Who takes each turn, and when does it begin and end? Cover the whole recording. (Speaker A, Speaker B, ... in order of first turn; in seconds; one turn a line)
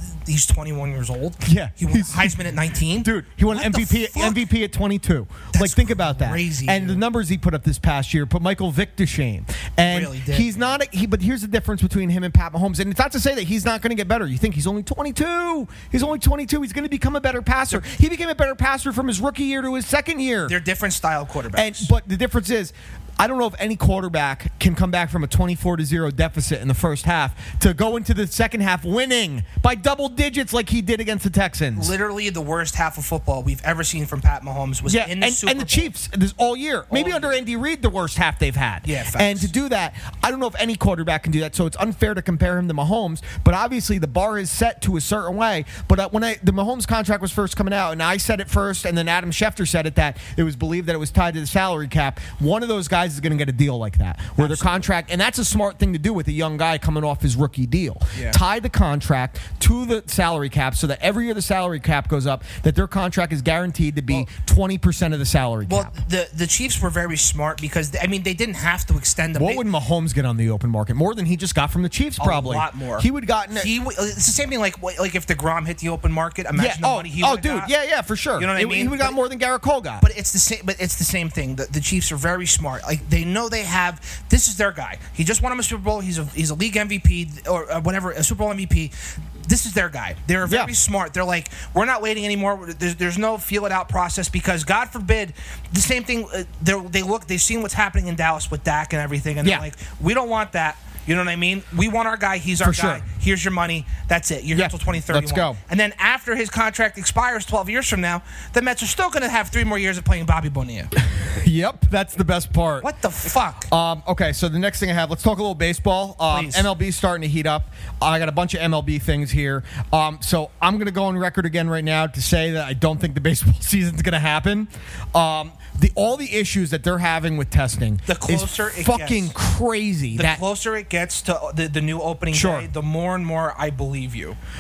Speaker A: 0.2-4.4
Speaker B: 1.4-2.4
Speaker B: 3.0-20.6
Speaker A: 5.5-7.0
Speaker A: 9.9-10.7
Speaker A: 20.5-21.9
Speaker B: 21.5-31.9
Speaker A: 31.8-35.9
Speaker B: 34.9-65.9
Speaker A: 36.9-37.4
Speaker A: 38.8-39.5
Speaker A: 54.4-54.9
Speaker A: 65.7-69.6
Speaker B: 69.3-73.7
Speaker A: 72.2-77.7
Speaker B: 76.5-80.0
Speaker A: 78.4-79.2
Speaker A: 80.0-110.9
Speaker B: 90.4-90.7
Speaker B: 102.6-103.0
Speaker B: 104.5-105.6
Speaker B: 111.1-112.9
Speaker A: 112.8-113.7
Speaker B: 113.7-130.4
Speaker A: 116.3-116.7
Speaker A: 128.1-129.3
Speaker A: 130.1-134.4
Speaker B: 132.3-132.7